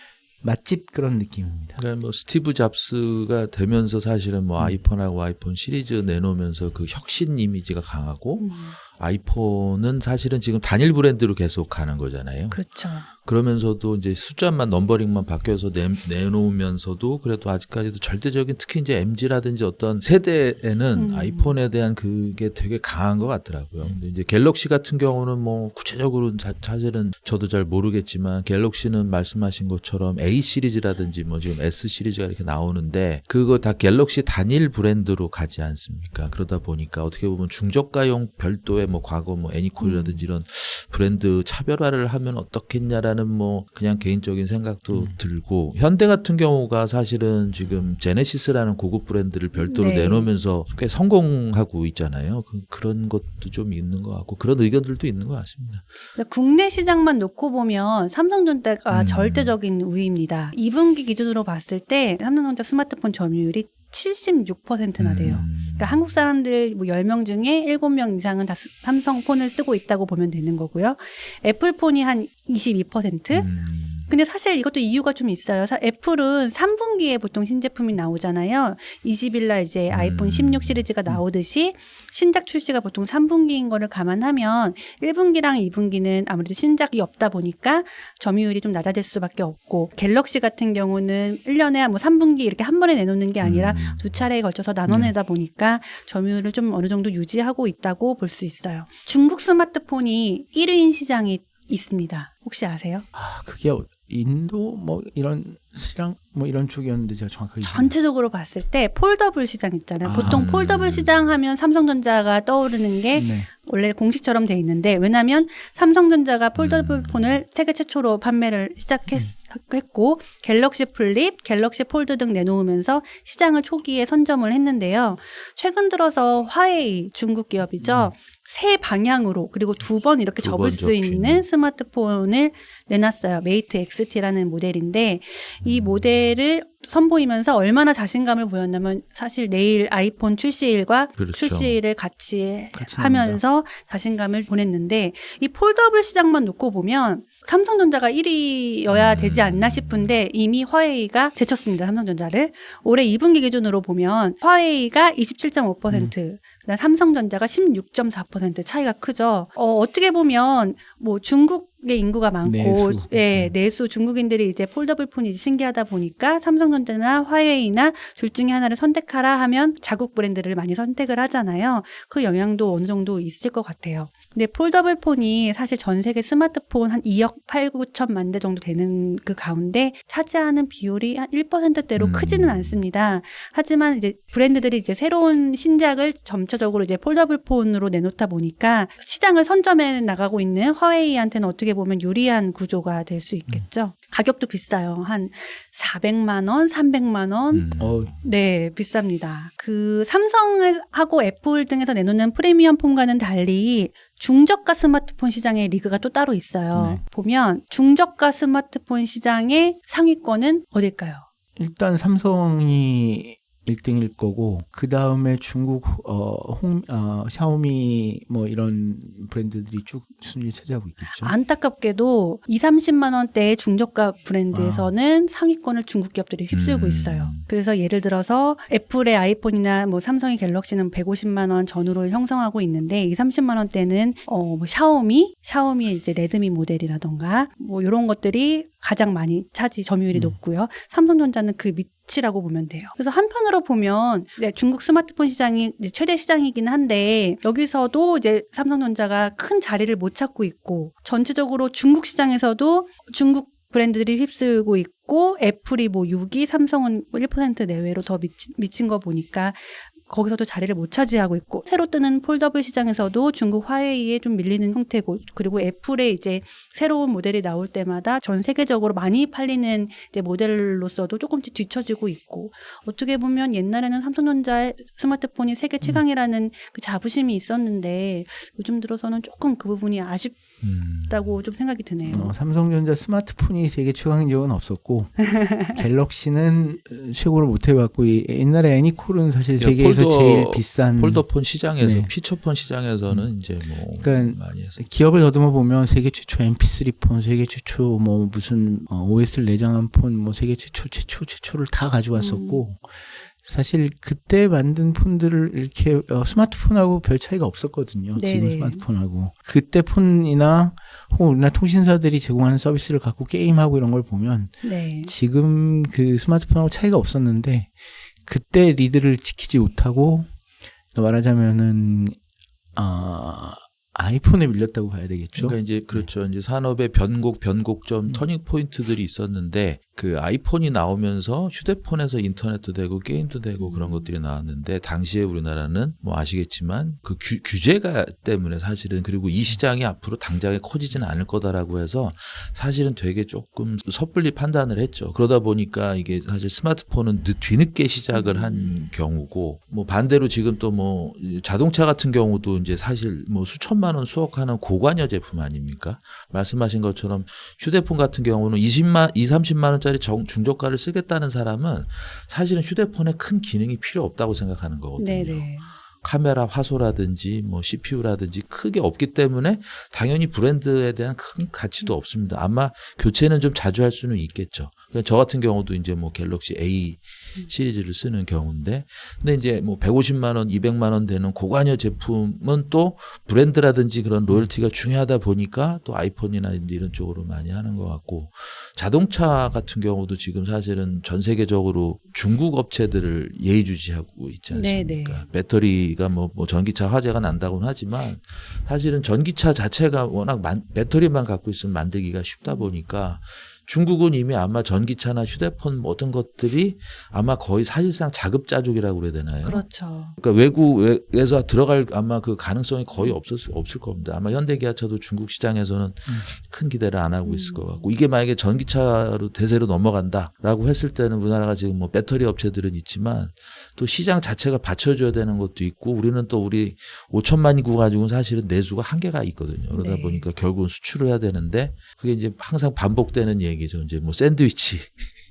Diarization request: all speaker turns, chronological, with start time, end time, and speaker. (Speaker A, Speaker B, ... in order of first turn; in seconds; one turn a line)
Speaker A: 0.4-1.8
Speaker B: 1.8-55.8
Speaker C: 8.4-8.8
Speaker C: 12.5-13.1
Speaker C: 20.9-21.6
Speaker C: 39.8-40.2
Speaker A: 44.9-45.2
Speaker C: 49.7-50.3
Speaker C: 56.2-73.5
Speaker B: 58.9-59.6
Speaker B: 65.0-66.0
Speaker B: 73.3-74.1
Speaker C: 74.1-103.1
Speaker B: 79.9-80.9
Speaker B: 93.4-94.2
Speaker A: 94.9-95.1
Speaker A: 103.1-107.9
Speaker C: 107.6-211.2
Speaker A: 110.0-110.5
Speaker B: 110.1-111.3
Speaker A: 113.2-113.5
Speaker B: 116.6-117.4
Speaker A: 127.8-128.1
Speaker B: 130.4-131.4
Speaker B: 141.2-141.8
Speaker A: 142.7-143.4
Speaker B: 148.9-150.2
Speaker A: 155.9-156.1
Speaker A: 162.4-163.5
Speaker B: 182.0-182.8
Speaker B: 197.5-198.2
Speaker A: 197.8-198.2
Speaker A: 206.7-207.0
Speaker A: 211.6-221.3
Speaker C: 221.1-280.4
Speaker A: 224.5-224.9
Speaker B: 226.5-227.5
Speaker A: 240.1-240.4
Speaker B: 280.6-281.4
Speaker C: 281.1-282.4
Speaker A: 282.1-291.2
Speaker C: 285.3-285.8
Speaker B: 289.6-294.8
Speaker A: 291.8-292.1
Speaker A: 294.0-320.3
Speaker C: 302.1-302.6
Speaker C: 308.1-308.9
Speaker C: 314.6-315.1
Speaker A: 320.9-322.2
Speaker A: 322.8-326.1
Speaker B: 325.4-435.1
Speaker C: 333.6-334.1
Speaker C: 348.1-348.8
Speaker C: 365.0-365.7
Speaker C: 394.5-395.2
Speaker C: 402.4-402.7
Speaker C: 409.4-410.1
Speaker C: 417.2-417.9
Speaker C: 429.7-430.2